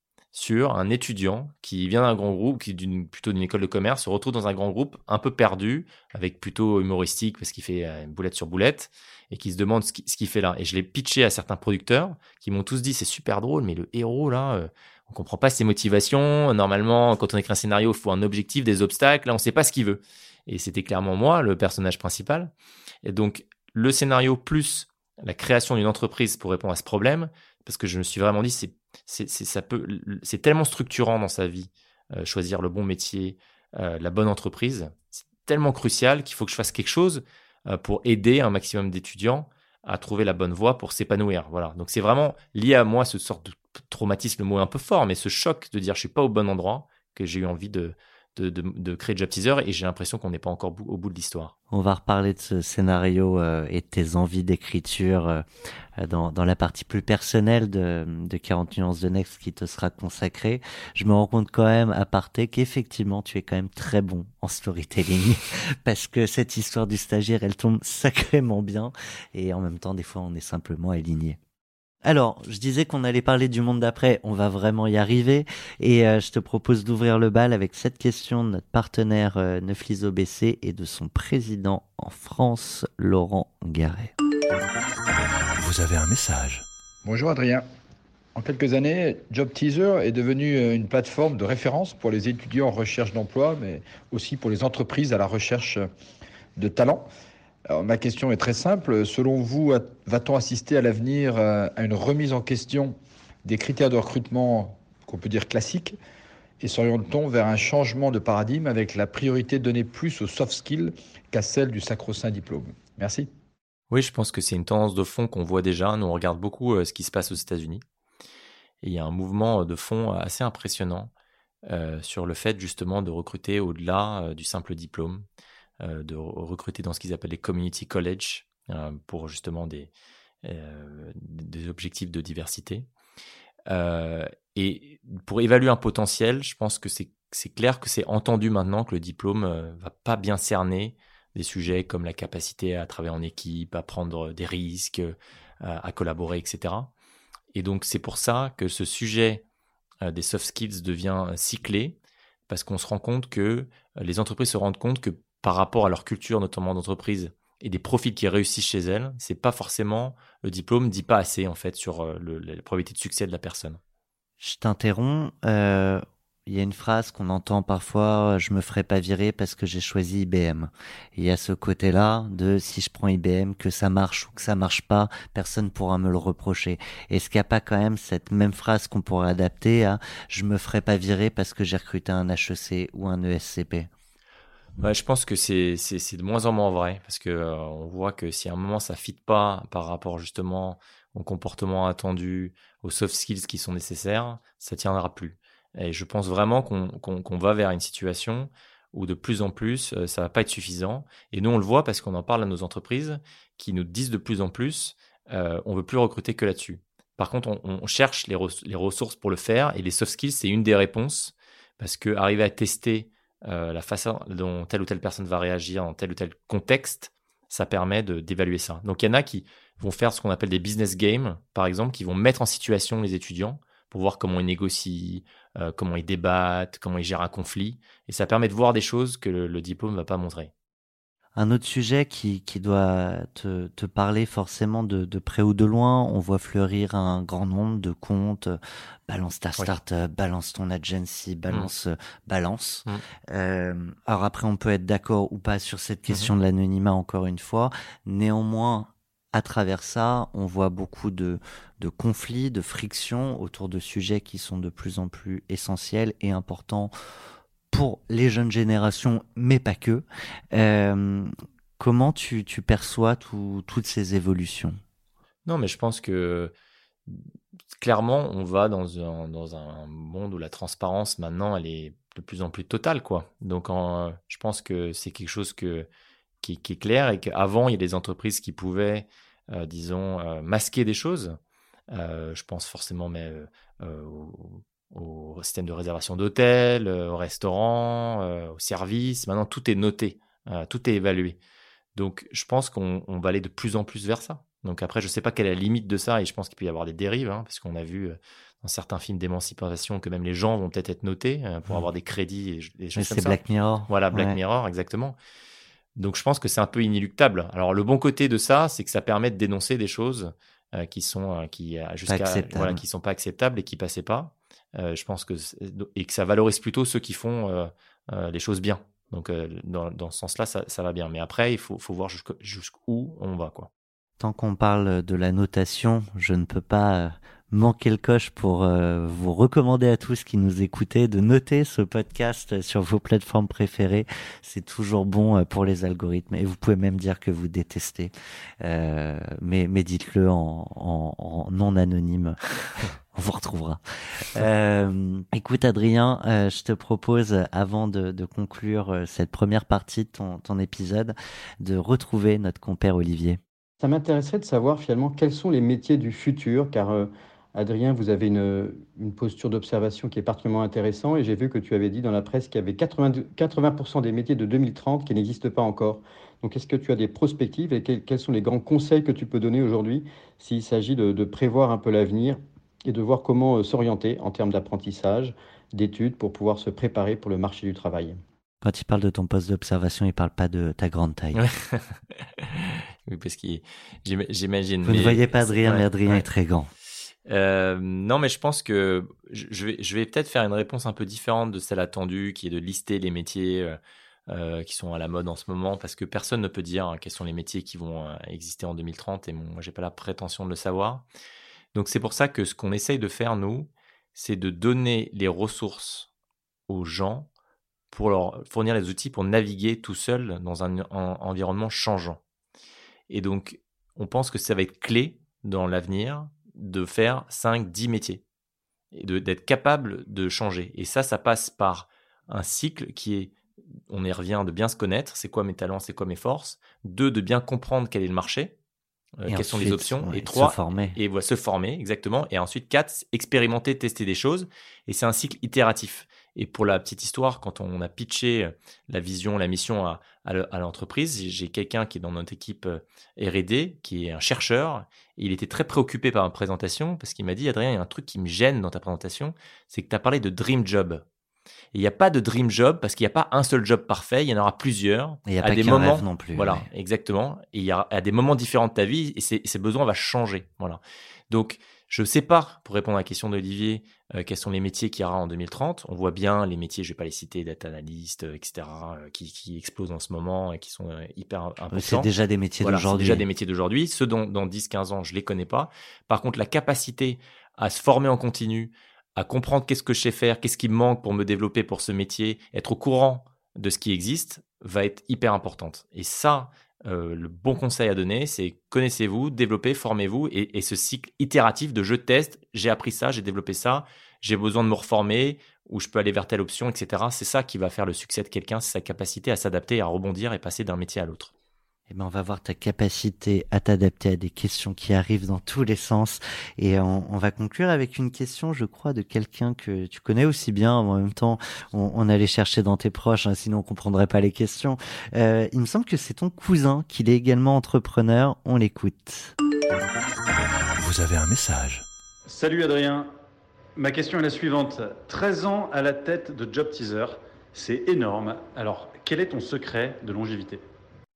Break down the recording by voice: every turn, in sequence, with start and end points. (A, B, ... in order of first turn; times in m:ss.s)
0:00.3-0:22.5 A
0:23.0-0:51.5 A
0:51.7-0:55.4 B
0:56.0-1:11.4 B
1:12.0-1:24.1 B
1:25.6-1:26.6 C
1:27.0-1:27.7 D
1:28.4-1:35.9 D
1:36.6-1:37.1 D
1:37.7-1:46.0 D
1:46.6-1:53.3 D
1:53.9-1:57.8 A
1:58.8-2:01.1 A
2:01.7-2:05.2 A
2:05.8-2:09.9 A
2:10.4-2:12.9 A
2:13.7-2:26.9 A
2:27.5-2:29.4 A
2:30.0-2:32.0 A
2:32.5-2:43.8 A
2:44.4-3:03.9 B
3:04.8-3:50.5 A
3:51.4-4:16.9 B
4:17.7-4:24.8 B
4:25.5-4:26.5 A
4:27.8-4:35.9 A
4:36.4-4:41.4 A
4:41.9-4:51.4 A
4:52.0-5:05.2 A
5:03.0-5:04.4 B
5:06.0-5:23.7 A
5:12.1-5:12.8 B
5:24.2-5:42.4 B
5:43.1-5:53.4 B
5:53.8-6:18.2 E
6:18.6-6:21.4 B
6:21.4-6:26.2 A
6:24.8-6:26.7 B
6:27.3-6:41.0 A
6:41.7-6:46.1 A
6:46.7-6:47.3 A
6:47.9-6:52.2 A
6:53.1-6:58.2 A
6:58.9-7:03.4 A
7:03.9-7:08.6 A
7:09.2-7:31.0 A
7:09.3-7:11.0 B
7:31.7-8:21.3 A
7:35.3-7:36.7 B
7:51.7-7:53.2 B
8:21.9-8:39.4 B
8:40.8-8:41.8 C
8:42.3-8:43.1 F
8:43.8-8:50.6 F